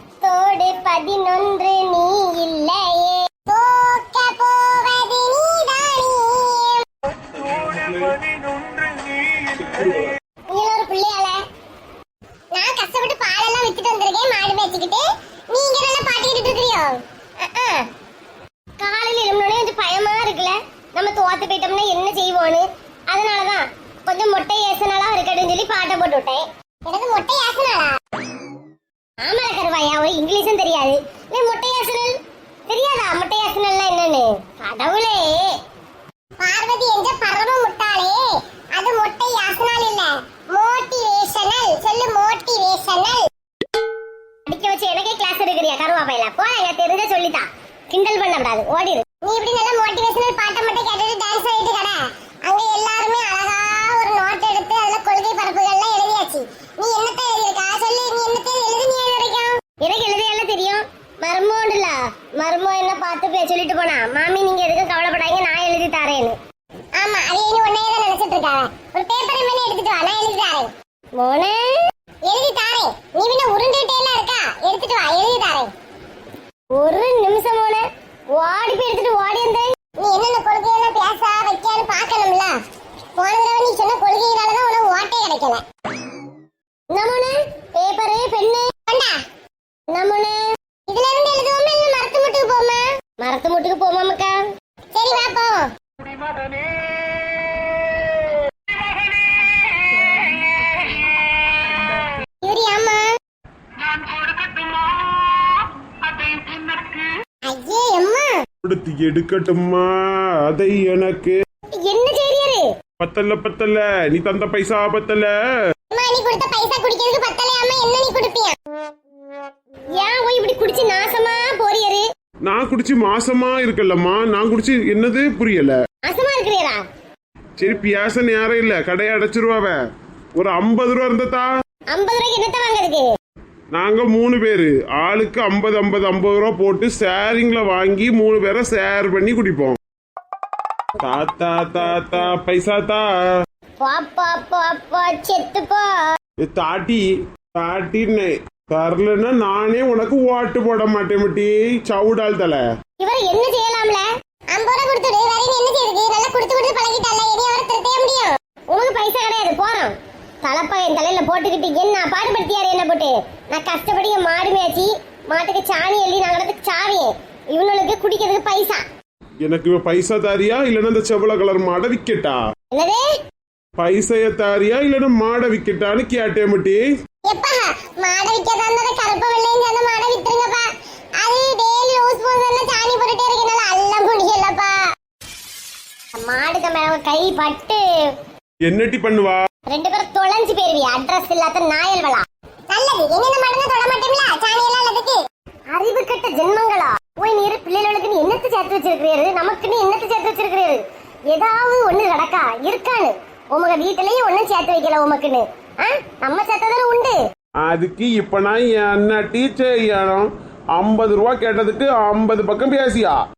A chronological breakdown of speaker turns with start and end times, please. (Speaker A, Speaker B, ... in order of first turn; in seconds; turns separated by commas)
Speaker A: 0.2-6.8, Speaker B: 7.1-10.1, Speaker C: 7.6-8.1, Speaker A: 10.5-11.4, Speaker A: 12.5-17.9, Speaker A: 18.8-27.9, Speaker A: 29.2-32.2, Speaker A: 32.7-35.5, Speaker A: 36.4-43.2, Speaker A: 44.5-66.3, Speaker A: 67.0-75.7, Speaker A: 76.7-82.5, Speaker A: 83.2-85.6, Speaker A: 86.9-89.2, Speaker A: 89.9-94.4, Speaker A: 94.9-95.7, Speaker A: 102.4-103.2, Speaker A: 107.4-108.4, Speaker C: 108.6-111.4, Speaker A: 111.8-112.7, Speaker C: 113.0-115.3, Speaker A: 115.9-118.6, Speaker A: 119.9-122.0, Speaker C: 122.4-125.7, Speaker A: 126.0-126.8, Speaker C: 127.6-129.8, Speaker C: 130.3-131.5, Speaker A: 131.9-133.1, Speaker C: 133.7-139.8, Speaker C: 141.0-143.1, Speaker A: 143.8-146.1, Speaker C: 146.4-152.6, Speaker A: 153.0-168.8, Speaker C: 169.4-172.4, Speaker A: 172.7-173.0, Speaker C: 173.8-176.8, Speaker A: 177.2-180.7, Speaker A: 181.2-184.8, Speaker A: 186.2-187.8, Speaker C: 188.7-189.4, Speaker A: 189.7-195.2, Speaker A: 195.7-207.2, Speaker C: 207.6-213.2